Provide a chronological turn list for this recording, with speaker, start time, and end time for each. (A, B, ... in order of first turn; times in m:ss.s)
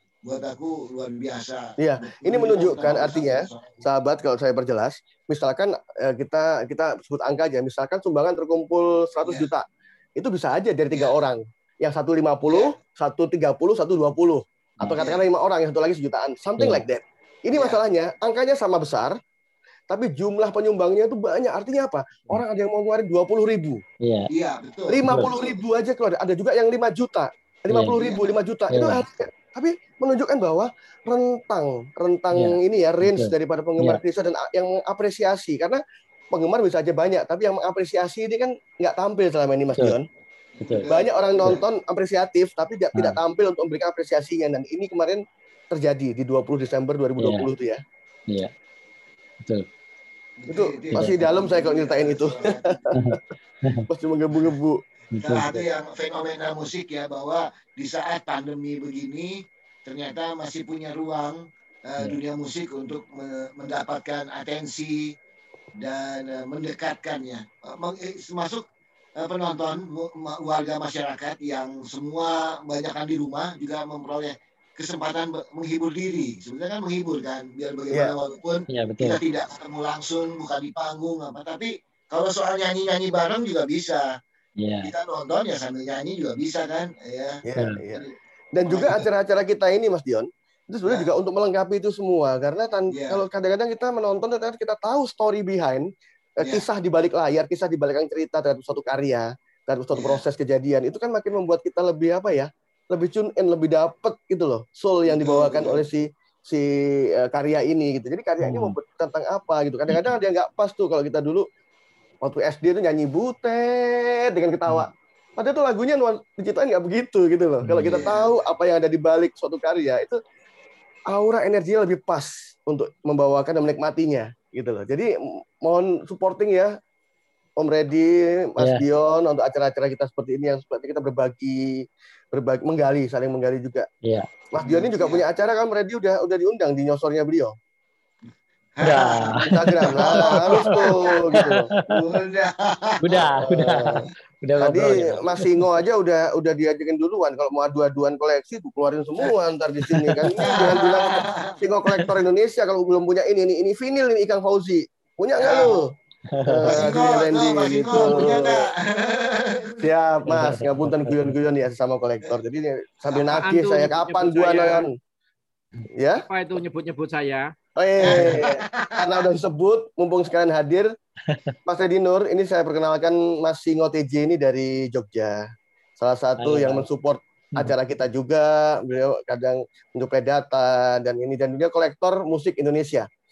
0:00.2-0:03.8 A
0:01.8-0:19.2 B
0:09.2-0:09.5 A
0:12.5-0:12.8 A
0:15.0-0:15.2 A
0:16.6-0:16.8 C
0:17.5-0:17.8 A
0:19.9-0:23.8 B
0:24.0-0:24.3 C
0:24.3-0:25.5 A
0:24.9-0:35.8 B
0:27.7-0:28.0 C
0:28.0-0:28.2 A
0:28.7-0:29.0 C
0:32.3-0:34.0 C
0:36.3-0:40.1 B
0:40.6-0:41.1 A
0:40.6-0:40.9 C
0:40.9-0:47.8 B
0:47.2-0:47.5 C
0:50.4-0:52.8 A
0:50.5-0:53.2 B
0:52.9-0:53.8 C
0:53.9-0:54.8 B
0:55.1-0:55.6 C
0:55.2-1:05.1 A
1:05.8-1:08.6 A
1:09.2-1:24.0 A
1:18.7-1:19.2 C
1:24.6-1:24.9 C
1:24.8-1:27.4 A
1:27.4-1:35.9 B
1:28.7-1:29.0 A
1:32.9-1:33.2 A
1:36.4-1:51.5 B
1:39.9-1:40.2 A
1:45.0-1:45.8 A
1:48.4-1:48.8 C
1:52.2-2:00.2 B
1:57.6-1:58.0 C
1:57.8-1:58.3 A
2:01.1-2:05.1 B
2:05.6-2:06.7 B
2:07.6-2:13.9 B
2:14.5-2:17.5 B
2:14.6-2:15.2 A
2:18.8-2:23.3 A
2:18.8-2:22.0 C
2:19.4-2:21.7 B
2:23.0-2:25.4 C
2:23.4-2:24.0 B
2:24.6-2:35.9 B
2:29.9-2:30.2 C
2:30.4-2:31.5 A
2:35.4-2:35.7 A
2:36.3-2:36.7 C
2:36.4-2:38.6 B
2:36.7-2:39.8 A
2:39.8-2:44.9 B
2:40.3-2:41.4 C
2:43.2-2:44.9 D
2:46.0-2:46.2 B
2:46.1-2:47.5 D
2:47.8-2:50.9 B
2:48.0-2:49.0 A
2:48.1-2:48.4 C
2:51.3-2:51.5 C
2:51.6-2:55.4 B
2:56.0-3:03.1 B
2:56.4-2:56.8 C